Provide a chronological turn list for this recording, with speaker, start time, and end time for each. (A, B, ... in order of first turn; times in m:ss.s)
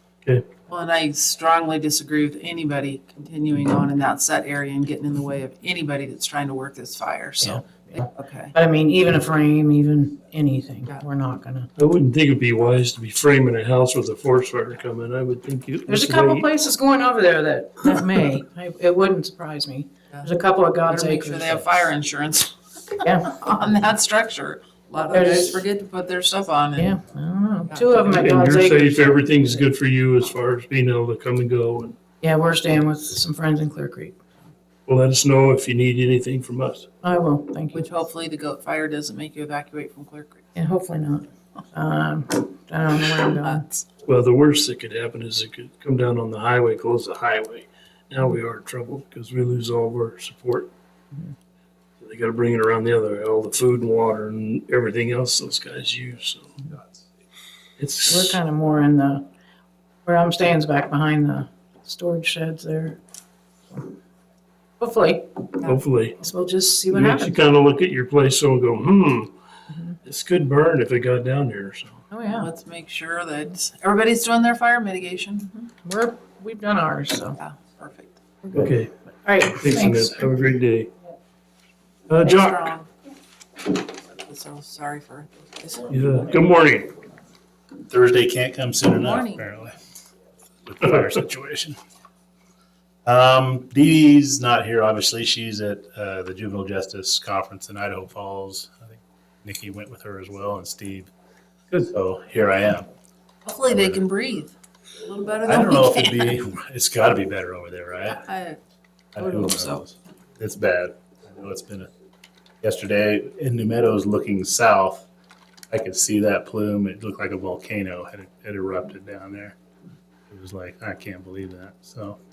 0:00.7-0:08.5 A
0:07.4-0:11.7 B
0:11.8-0:16.4 C
0:15.9-0:21.9 B
0:20.9-0:26.9 A
0:23.0-0:23.4 B
0:25.1-0:25.6 B
0:26.8-0:29.6 B
0:27.7-0:28.2 A
0:28.2-0:32.0 C
0:32.2-0:34.2 B
0:34.9-0:36.9 C
0:37.0-0:37.9 B
0:37.7-0:40.5 A
0:40.5-0:43.6 B
0:43.4-0:43.8 A
0:44.0-0:50.7 C
0:52.0-0:56.6 C
0:57.8-0:58.4 C
0:58.0-0:59.3 B
1:00.0-1:03.0 B
1:04.8-1:05.5 B
1:05.6-1:06.2 C
1:06.2-1:07.4 B
1:06.9-1:09.3 C
1:09.7-1:10.0 B
1:10.0-1:12.0 C
1:12.1-1:12.5 B
1:12.3-1:15.7 A
1:15.8-1:17.4 B
1:17.4-1:18.2 A
1:18.5-1:18.9 C
1:19.2-1:20.3 B
1:19.5-1:20.9 C
1:22.1-1:22.7 C
1:22.2-1:22.9 A
1:24.1-1:26.0 A
1:25.9-1:26.9 C
1:27.9-1:29.8 D
1:29.0-1:29.4 A
1:30.6-1:31.8 D
1:33.0-1:41.1 D
1:41.8-1:42.9 D
1:43.4-1:46.4 A
1:43.7-1:44.0 D
1:45.4-1:48.3 D
1:48.2-1:48.6 A
1:49.2-1:51.9 D
1:49.2-1:49.8 A
1:52.6-1:55.1 D
1:55.7-1:59.6 D
2:00.3-2:02.2 D